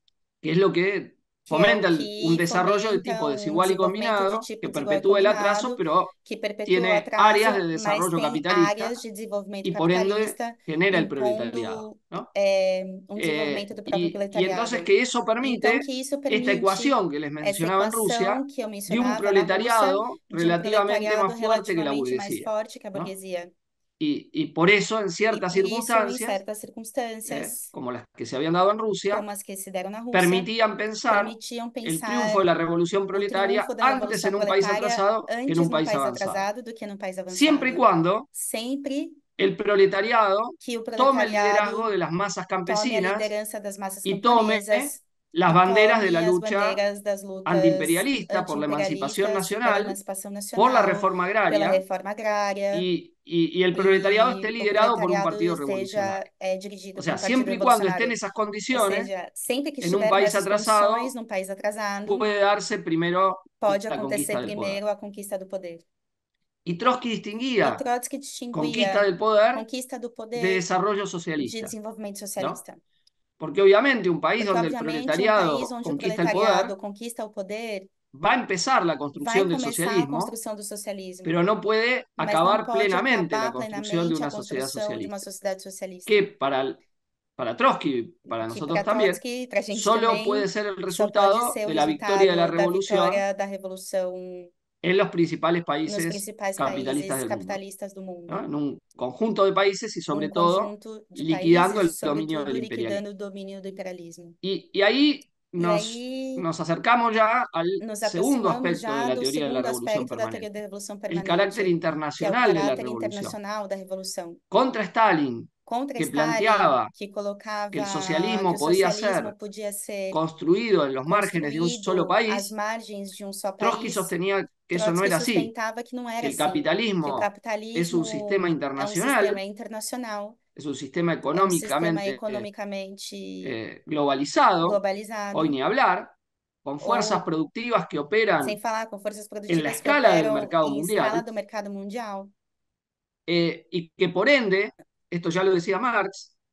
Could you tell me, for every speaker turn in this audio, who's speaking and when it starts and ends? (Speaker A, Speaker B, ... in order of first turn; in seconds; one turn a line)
Speaker A: 0.4-6.1
Speaker B: 1.5-23.5
Speaker A: 6.7-9.0
Speaker A: 9.7-12.3
Speaker A: 13.2-23.1
Speaker A: 24.0-26.4
Speaker B: 25.3-27.7
Speaker A: 27.3-29.3
Speaker B: 29.1-30.5
Speaker A: 30.1-36.5
Speaker B: 31.1-32.5
Speaker B: 33.1-39.2
Speaker A: 37.3-38.3
Speaker A: 39.4-43.3
Speaker B: 40.6-41.9
Speaker B: 42.7-52.9
Speaker A: 44.0-46.8
Speaker A: 47.5-50.0
Speaker A: 50.6-51.8
Speaker A: 52.7-56.2
Speaker B: 53.7-58.2
Speaker A: 57.0-59.1
Speaker B: 58.7-62.3
Speaker A: 59.8-61.1
Speaker A: 62.1-64.8
Speaker B: 63.6-65.8
Speaker A: 66.7-67.8
Speaker B: 67.6-70.7
Speaker A: 68.5-69.7
Speaker A: 70.3-71.7
Speaker B: 71.4-72.8
Speaker A: 73.4-76.8
Speaker B: 74.4-77.9
Speaker A: 78.1-80.3
Speaker B: 79.2-81.4
Speaker A: 81.2-85.2
Speaker B: 82.2-86.3
Speaker A: 86.1-86.8
Speaker A: 87.4-89.2
Speaker B: 88.3-94.5
Speaker A: 89.7-93.2
Speaker A: 94.8-97.6
Speaker B: 95.9-98.5
Speaker A: 98.3-103.0
Speaker B: 100.1-104.4
Speaker A: 104.4-110.5
Speaker B: 105.6-106.5
Speaker B: 107.8-114.4
Speaker A: 111.1-113.4
Speaker A: 114.5-116.9
Speaker B: 115.7-120.2
Speaker A: 117.7-119.3
Speaker A: 120.1-122.5
Speaker B: 121.1-124.1
Speaker A: 123.6-125.5
Speaker B: 124.7-130.4
Speaker A: 126.2-129.4
Speaker A: 130.6-132.5
Speaker B: 131.3-133.6
Speaker A: 133.4-134.8
Speaker B: 134.6-135.6
Speaker A: 135.3-138.6
Speaker B: 136.8-137.2
Speaker B: 138.4-142.3
Speaker A: 139.5-141.3
Speaker A: 143.3-146.3